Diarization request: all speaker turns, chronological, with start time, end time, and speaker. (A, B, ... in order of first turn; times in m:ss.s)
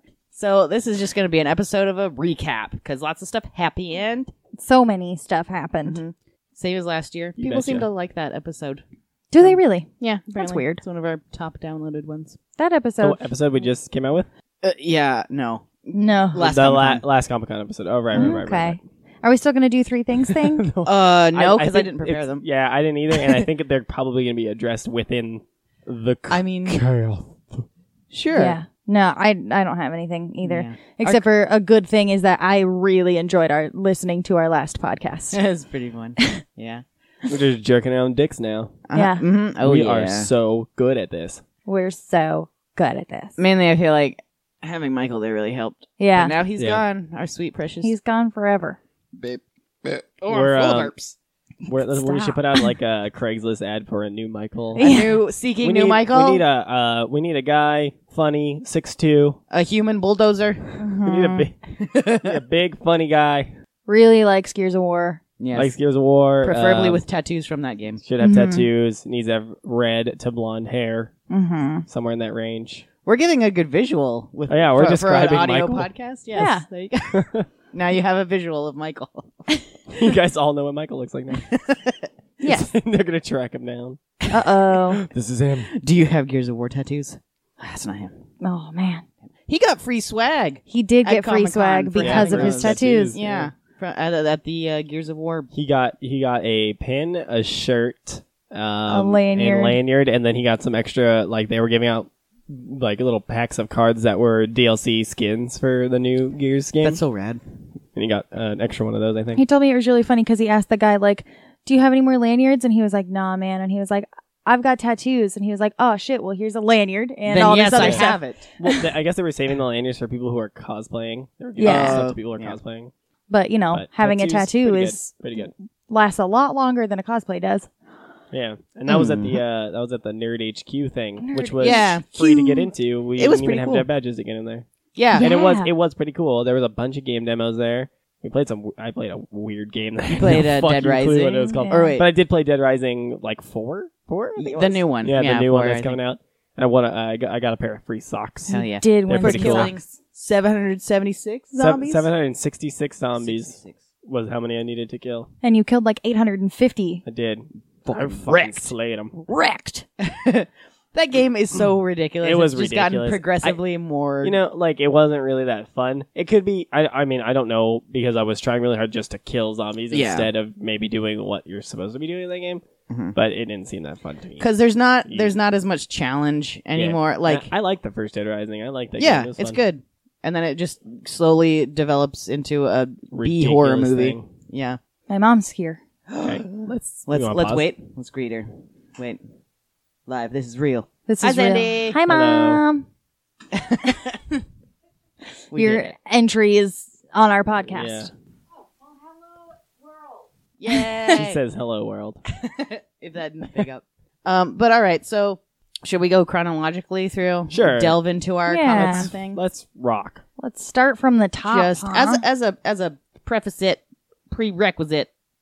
0:00.3-0:04.3 A
0:04.6-0:06.0 B
0:05.9-0:08.8 A
0:07.4-0:07.9 C
0:09.3-0:10.8 B
0:09.4-0:12.4 A
0:12.6-0:13.2 B
0:13.0-0:14.3 C
0:14.6-0:17.0 A
0:15.9-0:16.4 B
0:16.4-0:18.8 C
0:18.1-0:20.7 B
0:20.3-0:27.6 C
0:20.8-0:22.4 A
0:23.2-0:23.4 A
0:26.3-0:26.8 A
0:28.1-0:28.6 A
0:28.3-0:35.4 B
0:30.4-0:31.2 A
0:35.3-0:36.8 A
0:37.3-0:38.8 C
0:38.9-0:40.3 A
0:38.9-0:39.2 B
0:39.6-0:41.4 C
0:41.7-0:43.4 B
0:43.4-0:47.9 A
0:46.0-0:46.4 B
0:46.6-0:46.8 C
0:47.8-0:48.8 B
0:49.2-0:51.2 A
0:50.3-0:50.9 C
0:51.7-0:52.7 B
0:51.7-0:54.9 C
0:54.8-0:55.2 B
0:54.8-0:56.4 A
0:55.6-0:59.4 C
0:59.5-1:01.0 A
1:00.8-1:01.5 B
1:01.0-1:01.6 C
1:01.7-1:02.4 A
1:02.2-1:03.5 C
1:03.9-1:05.2 B
1:05.4-1:05.7 A
1:05.6-1:07.0 C
1:06.4-1:08.0 A
1:08.0-1:11.1 C
1:08.2-1:08.6 B
1:11.3-1:11.8 B
1:11.9-1:12.9 C
1:13.0-1:19.5 A
1:14.5-1:15.9 C
1:16.4-1:16.6 B
1:17.1-1:17.5 C
1:19.9-1:21.5 C
1:21.3-1:22.1 A
1:22.4-1:22.7 B
1:22.5-1:24.2 C
1:24.3-1:25.0 B
1:24.9-1:25.7 C
1:25.6-1:28.2 A
1:28.4-1:29.0 B
1:29.5-1:35.5 A
1:30.7-1:33.2 B
1:32.0-1:33.5 C
1:35.5-1:47.0 C
1:38.9-1:39.8 B
1:46.8-1:47.4 A
1:48.0-1:49.4 C
1:49.4-1:58.9 B
1:57.3-1:58.5 A
1:57.7-1:58.1 C
1:58.6-2:02.9 C
2:01.6-2:02.0 B
2:01.6-2:02.6 A
2:03.3-2:07.7 B
2:03.7-2:05.5 C
2:08.3-2:29.8 C
2:08.9-2:09.4 A
2:11.2-2:11.9 B
2:11.6-2:13.9 A
2:15.0-2:15.3 A
2:15.1-2:15.7 B
2:20.1-2:22.1 A
2:21.4-2:22.0 B
2:24.4-2:26.0 A
2:28.5-2:32.1 A
2:28.7-2:29.8 B
2:31.6-2:35.3 C
2:33.2-2:33.8 A
2:35.4-2:37.0 B
2:37.1-2:39.2 C
2:37.9-2:38.7 A
2:39.3-2:39.8 B
2:40.0-2:44.4 A
2:42.2-2:43.6 C
2:44.2-2:52.6 C
2:49.9-2:50.3 A
2:52.9-2:53.2 A
2:53.2-2:54.5 C
2:54.4-2:57.5 A
2:55.1-2:55.3 C
2:56.8-2:59.6 C
2:59.0-3:04.8 A
3:03.1-3:04.3 C
3:05.1-3:05.8 B
3:06.1-3:09.2 A
3:06.2-3:07.7 C
3:10.1-3:12.0 A
3:11.1-3:12.9 B
3:12.1-3:12.6 C
3:13.5-3:14.4 A
3:15.5-3:16.0 A
3:15.6-3:18.1 B
3:17.7-3:18.1 C
3:20.6-3:21.4 A
3:20.7-3:21.2 B
3:21.1-3:22.2 C
3:22.3-3:29.4 A
3:27.5-3:28.0 C
3:28.5-3:29.1 B
3:28.8-3:30.2 C
3:30.4-3:32.2 B
3:31.5-3:35.1 A